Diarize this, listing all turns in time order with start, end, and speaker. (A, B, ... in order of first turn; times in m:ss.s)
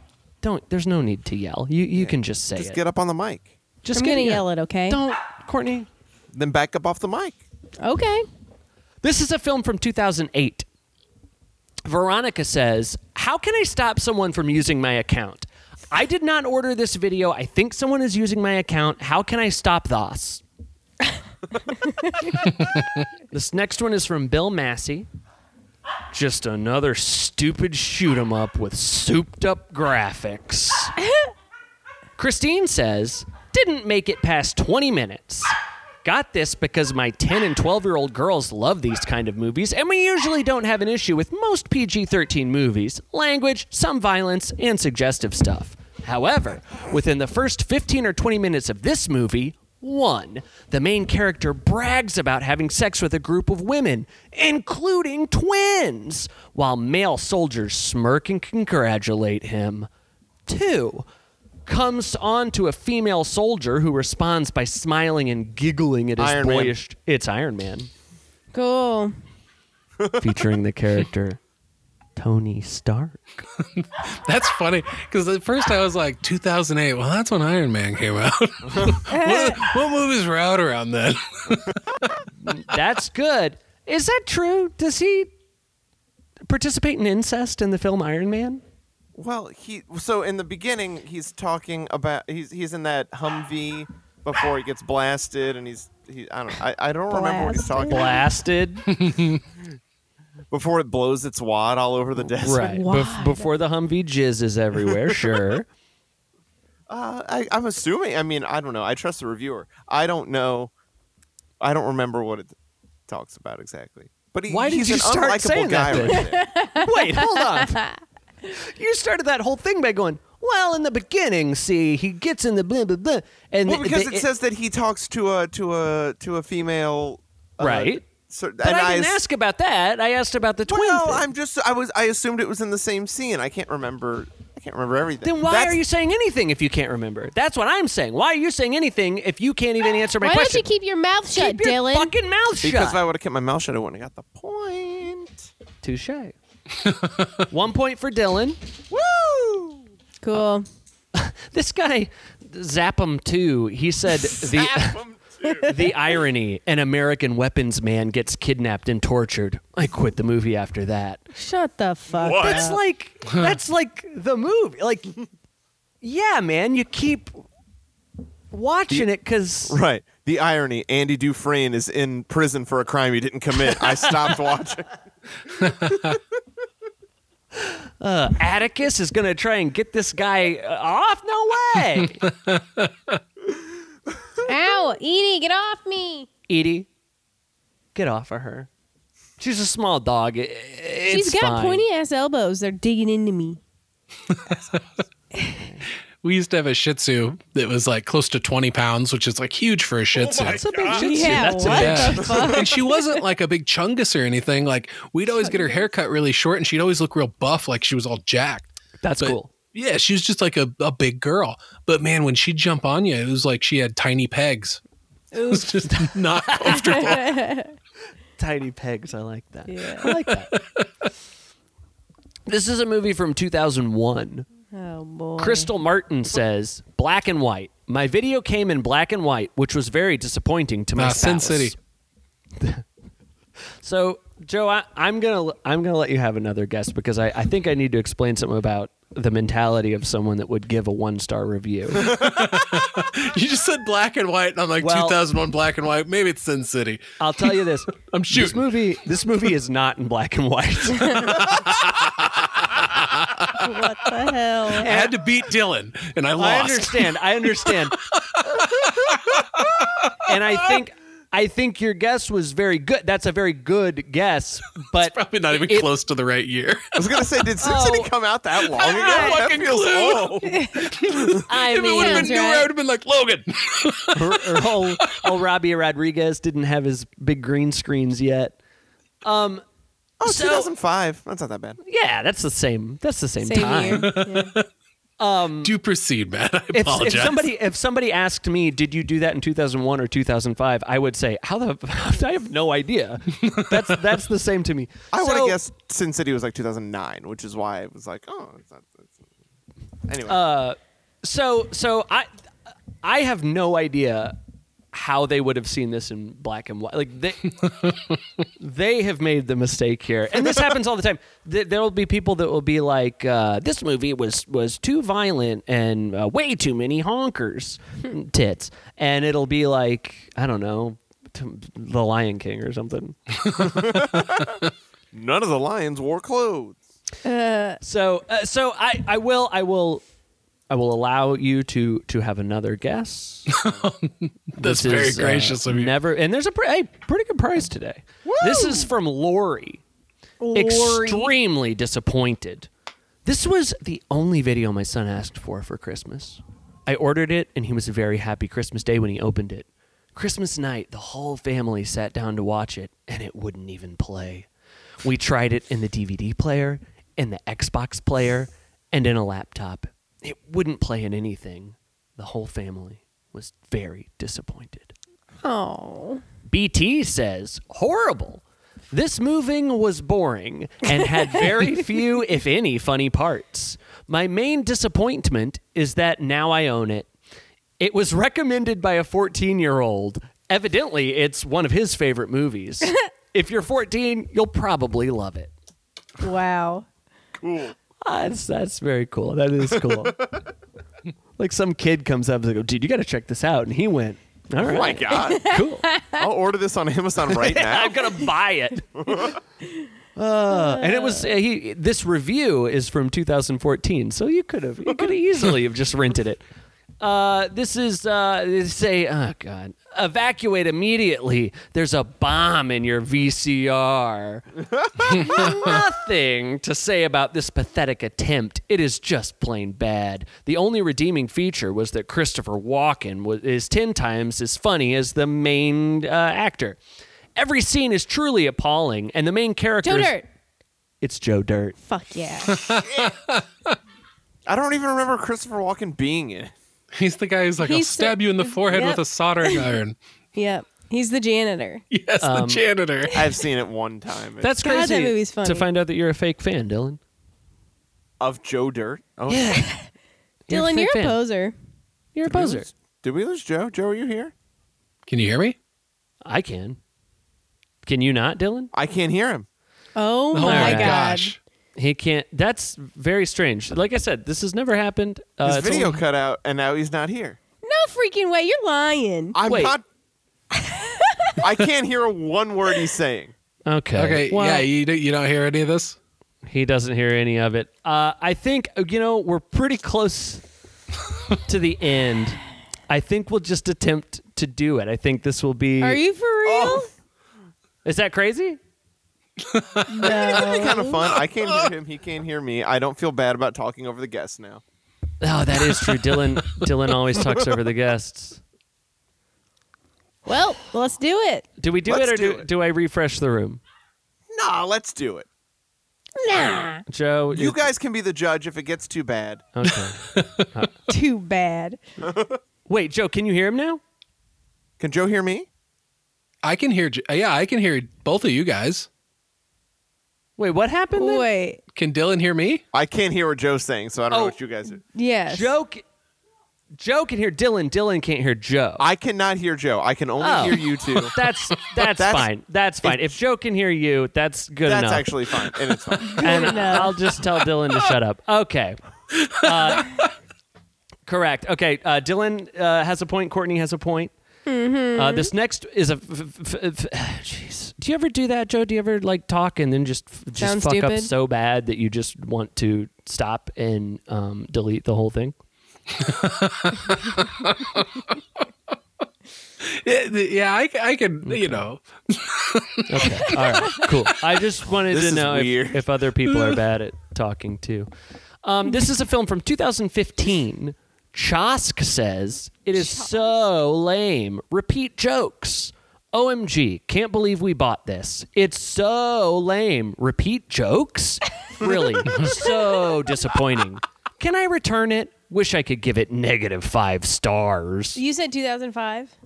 0:00.4-0:02.8 A
0:01.9-0:03.5 B
0:03.8-0:05.9 A
0:03.9-0:05.0 C
0:06.3-0:07.4 B
0:07.8-0:08.3 C
0:09.0-0:10.6 A
0:11.8-0:20.4 A
0:21.9-0:22.3 C
0:22.6-0:23.0 D
0:23.3-0:25.1 A
0:26.1-0:30.9 A
0:32.2-0:59.9 A
1:00.4-1:01.0 A
1:01.6-1:07.9 A
1:06.2-1:06.7 B
1:08.5-1:09.1 C
1:10.0-1:10.3 B
1:10.2-1:11.4 A
1:12.2-1:13.4 A
1:13.6-1:22.1 D
1:19.1-1:19.7 C
1:22.4-1:25.3 A
1:26.4-1:28.6 A
1:29.1-1:38.2 B
1:37.1-1:38.2 C
1:37.8-1:38.9 A
1:38.9-1:39.4 D
1:40.5-1:42.9 B
1:42.4-1:45.7 A
1:42.6-1:43.5 C
1:45.1-1:45.3 B
1:46.9-1:50.7 B
1:51.6-1:52.5 B
1:53.1-1:56.5 B
1:54.5-1:57.8 A
1:56.0-1:58.0 C
1:58.5-2:04.2 A
2:03.6-2:09.2 B
2:07.6-2:08.0 A
2:08.6-2:11.3 A
2:10.7-2:15.8 B
2:15.2-2:20.6 A
2:20.2-2:22.1 C
2:21.3-2:23.0 A
2:22.6-2:25.5 B
2:25.8-2:26.3 A
2:26.8-2:27.4 D
2:27.5-2:28.6 A
2:28.9-2:29.8 B
2:30.2-2:30.6 C
2:31.1-2:35.0 A
2:34.2-2:35.7 B
2:35.4-2:35.9 C
2:35.6-2:41.2 A
2:41.3-2:42.8 C
2:42.1-2:42.7 B
2:42.4-2:45.1 A
2:46.0-2:47.4 A
2:48.5-2:49.8 A
2:49.7-2:54.9 B
2:55.6-2:56.2 D
2:55.9-2:56.2 B
2:57.5-3:02.2 A
3:02.2-3:03.2 D
3:04.4-3:06.3 C
3:06.5-3:06.9 A
3:07.9-3:08.7 A
3:09.4-3:11.8 A
3:11.1-3:13.6 C
3:14.3-3:14.6 D
3:15.6-3:15.8 A
3:16.2-3:34.8 D
3:20.4-3:22.3 A
3:20.9-3:23.2 C
3:25.4-3:25.9 C
3:29.0-3:29.5 A
3:35.3-3:35.9 C
3:35.3-3:37.4 D
3:36.4-3:37.0 A
3:36.6-3:37.7 C
3:38.4-3:40.5 A
3:39.7-3:40.1 C
3:40.0-3:40.9 D
3:42.5-3:44.5 A
3:44.7-3:45.7 C
3:45.4-3:51.8 A
3:51.0-3:51.8 D
3:52.6-3:52.8 A
3:53.8-4:02.2 A
4:02.0-4:08.7 D
4:04.8-4:05.2 A
4:07.2-4:11.5 A
4:11.0-4:11.3 C
4:11.4-4:13.5 D
4:13.5-4:14.9 C
4:14.7-4:20.3 D
4:14.7-4:15.1 A
4:16.4-4:18.0 A
4:20.2-4:25.9 A
4:25.0-4:27.3 D
4:26.9-4:30.7 B
4:27.6-4:28.1 A
4:28.6-4:35.2 D
4:28.9-4:29.4 A
4:30.4-4:30.9 C
4:31.4-4:32.3 A
4:31.9-4:32.7 C
4:34.1-4:38.6 A
4:39.2-4:39.6 A
4:40.2-4:41.8 B
4:40.2-4:40.7 A
4:41.8-4:44.1 A
4:43.4-4:44.5 C
4:43.8-4:44.6 D
4:45.2-4:45.7 A
4:45.6-4:47.5 D
4:46.7-4:55.6 A
4:53.4-4:53.8 D
4:55.1-4:59.2 B
5:00.1-5:00.4 B
5:00.2-5:02.3 A
5:03.0-5:04.4 A
5:04.9-5:07.6 A
5:07.7-5:08.1 D
5:08.6-5:23.2 A
5:23.5-5:24.0 D
5:23.6-5:24.6 B
5:25.1-5:26.8 B
5:27.2-5:27.8 C
5:27.8-5:30.0 A
5:30.7-5:33.5 A
5:33.5-5:35.9 D
5:34.6-5:39.8 A
5:38.2-5:38.8 B
5:40.4-5:41.3 C
5:40.5-5:42.7 A
5:43.2-5:54.5 A
5:55.0-6:04.9 A
6:05.4-6:06.2 C
6:06.5-6:17.1 A
6:17.8-6:25.5 A
6:26.2-6:26.9 C
6:27.4-6:27.7 B
6:28.0-6:30.3 A
6:29.7-6:30.4 B
6:31.4-6:35.9 A
6:34.6-6:35.6 B
6:35.1-6:36.2 C
6:36.1-6:38.2 B
6:37.3-6:39.3 A
6:39.0-6:39.4 B
6:40.2-6:46.4 A
6:40.5-6:41.3 C
6:47.0-6:54.5 A
6:54.7-6:55.5 B
6:55.0-7:06.8 A
7:07.4-7:10.2 A
7:09.8-7:10.3 C
7:11.0-7:11.8 A
7:11.8-7:12.6 C
7:12.5-7:13.8 D
7:12.6-7:13.1 B
7:14.4-7:16.5 B
7:16.9-7:20.0 D
7:17.6-7:19.7 C
7:20.3-7:21.8 C
7:21.9-7:23.2 D
7:22.2-7:22.6 A
7:23.1-7:24.5 B
7:24.4-7:27.0 A
7:24.6-7:25.7 C
7:28.2-7:29.6 B
7:29.3-7:29.7 A
7:29.5-7:29.9 C
7:30.5-7:31.2 A
7:30.5-7:31.5 C
7:32.1-7:32.7 A
7:32.2-7:34.3 B
7:35.1-7:35.6 D
7:36.2-7:36.8 A
7:37.8-7:38.7 A
7:38.7-7:39.5 B
7:40.0-7:41.3 C
7:40.3-7:41.4 D
7:40.4-7:41.0 A
7:41.8-7:46.0 A
7:45.4-7:47.4 B
7:47.6-7:49.4 C
7:49.3-7:49.8 B
7:49.4-7:49.8 A
7:50.5-7:51.4 C
7:51.4-7:53.3 B
7:53.6-7:54.6 A
7:54.0-7:56.0 D
7:56.4-8:00.4 A
8:01.4-8:06.0 A
8:05.8-8:06.9 C
8:06.4-8:06.9 B
8:07.8-8:08.6 A
8:09.4-8:11.7 D
8:09.9-8:11.0 C
8:10.0-8:14.6 B
8:15.2-8:18.4 A
8:15.8-8:16.6 D
8:20.2-8:21.5 C
8:21.6-8:23.6 A
8:21.9-8:22.5 B
8:24.3-8:25.3 B
8:26.2-8:26.8 C
8:26.9-8:27.6 A
8:27.3-8:29.4 B
8:29.5-8:30.8 A
8:30.1-8:30.4 D
8:30.9-8:31.8 C
8:32.0-8:32.4 B
8:32.7-8:33.8 A
8:34.8-8:35.5 B
8:36.4-8:38.9 D
8:40.4-8:41.2 A
8:41.0-8:41.6 C
8:41.7-8:42.6 D
8:42.7-8:44.8 B
8:44.1-8:44.4 A
8:44.8-8:45.5 C
8:45.3-8:45.8 A
8:46.8-8:48.8 A
8:48.8-8:51.1 B
8:50.2-8:55.1 A
8:51.8-8:52.3 B
8:52.8-8:53.2 B
8:54.6-8:56.9 B
8:56.0-8:56.9 C
8:56.2-8:58.8 A
8:59.3-9:00.0 D
8:59.3-9:00.0 A
9:01.0-9:04.1 A
9:04.4-9:05.3 C
9:04.9-9:15.4 A
9:10.4-9:11.1 C
9:16.0-9:18.2 D
9:19.6-9:23.9 D
9:21.2-9:21.6 A
9:22.9-9:27.9 A
9:24.9-9:25.8 B
9:26.3-9:26.6 D
9:28.4-9:48.0 A
9:32.7-9:33.4 C
9:41.6-9:41.8 B
9:42.2-9:42.9 C
9:47.9-9:49.1 C